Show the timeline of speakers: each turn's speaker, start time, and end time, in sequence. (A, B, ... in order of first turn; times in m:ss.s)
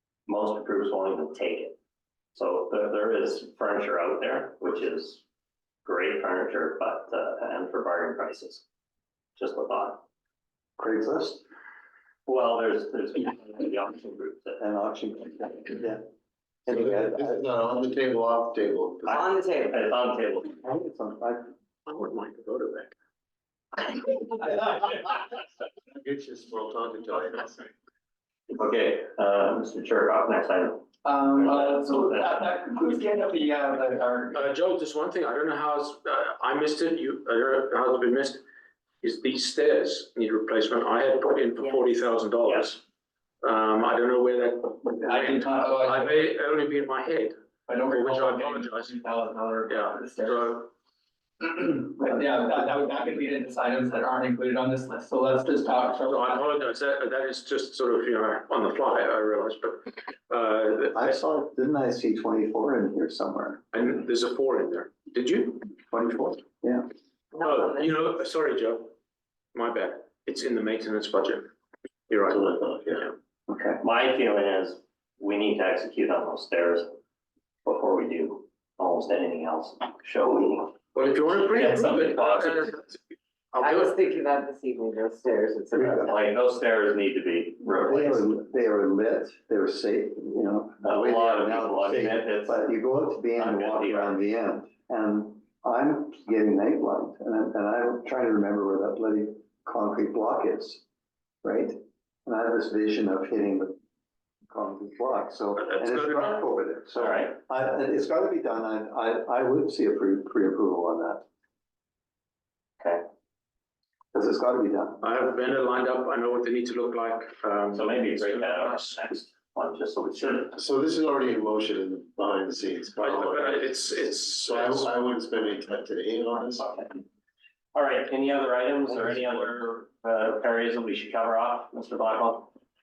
0:00.3-0:01.8 A
0:02.4-0:05.2 A
0:05.8-0:08.6 A
0:09.4-0:10.0 A
0:10.8-0:11.4 B
0:12.3-0:14.6 A
0:14.6-0:16.0 B
0:16.7-0:17.4 B
0:16.7-0:19.2 C
0:19.1-0:20.6 A
0:19.1-0:19.8 D
0:20.6-0:21.5 B
0:21.9-0:22.9 E
0:25.9-0:27.7 C
0:28.5-0:32.3 A
0:31.0-0:34.5 F
0:34.3-0:38.4 E
0:39.0-0:42.8 E
0:42.4-0:42.8 A
0:43.4-0:49.0 E
0:44.9-0:46.2 F
0:47.7-0:50.7 F
0:49.7-0:50.7 E
0:51.4-0:56.5 F
0:56.1-1:01.2 E
1:00.9-1:03.6 B
1:03.7-1:05.7 E
1:05.9-1:06.9 B
1:07.3-1:08.3 D
1:07.4-1:08.9 E
1:09.5-1:11.5 E
1:12.1-1:12.5 E
1:12.3-1:13.1 C
1:13.5-1:13.8 B
1:13.8-1:16.9 A
1:17.6-1:20.8 A
1:20.9-1:23.0 E
1:21.5-1:22.7 A
1:23.5-1:24.0 E
1:23.6-1:26.3 D
1:25.8-1:26.0 B
1:25.8-1:28.3 A
1:27.8-1:40.8 B
1:30.8-1:32.6 A
1:33.4-1:34.2 A
1:41.4-1:43.8 B
1:44.5-1:51.2 B
1:45.6-1:46.4 E
1:47.0-1:47.4 A
1:54.1-1:55.0 B
1:55.0-1:59.0 E
1:57.7-2:00.6 A
2:00.2-2:06.7 C
2:03.0-2:04.9 E
2:06.4-2:07.0 A
2:07.7-2:12.5 A